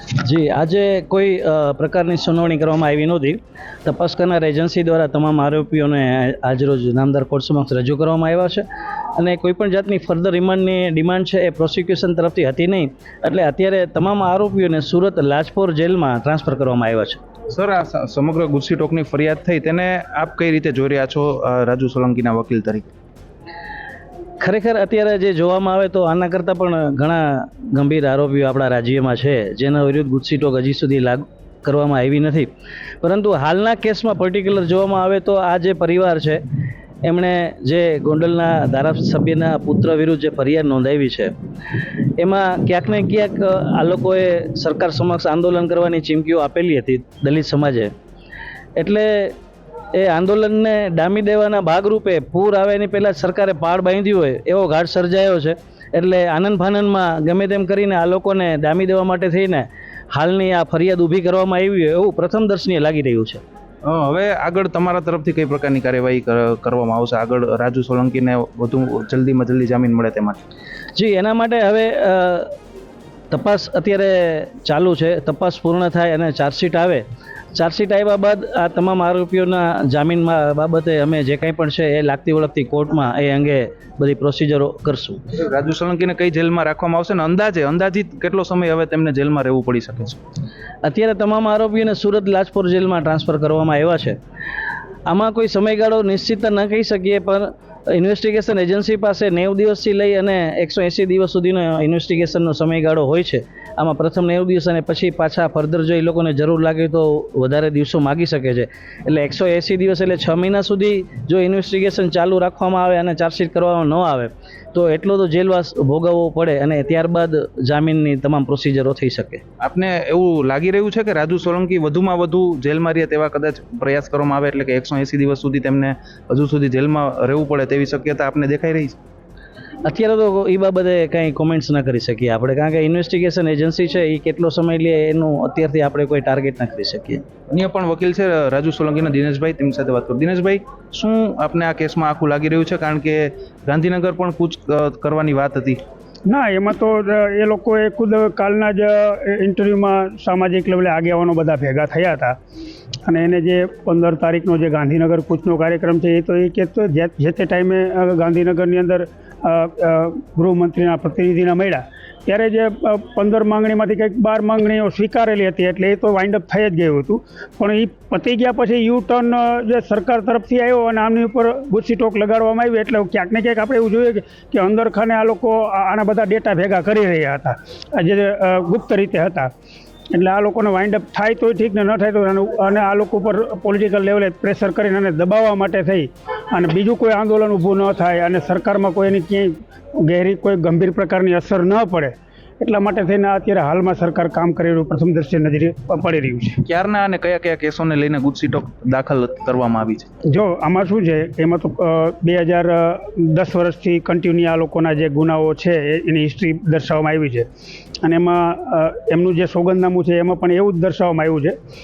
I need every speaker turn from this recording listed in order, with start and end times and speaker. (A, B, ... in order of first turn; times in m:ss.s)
0:00.2-0:08.6 A
0:09.2-0:17.2 A
0:17.5-0:22.9 B
0:24.4-0:32.5 A
0:33.0-0:36.4 A
0:37.0-0:41.3 A
0:42.2-0:47.9 A
0:48.8-0:49.3 A
0:49.9-1:03.4 A
1:03.8-1:10.4 B
1:10.9-1:12.5 A
1:13.3-1:17.0 A
1:17.5-1:25.2 A
1:25.4-1:30.2 B
1:30.8-1:34.2 A
1:35.0-1:59.4 A
1:59.6-2:09.0 B
2:09.8-2:17.2 A
2:17.5-2:25.8 B
2:26.3-2:32.4 C
2:33.0-2:59.5 C
3:00.1-3:16.6 C
3:16.6-3:20.1 B
3:20.3-3:27.5 C
3:28.0-3:31.6 C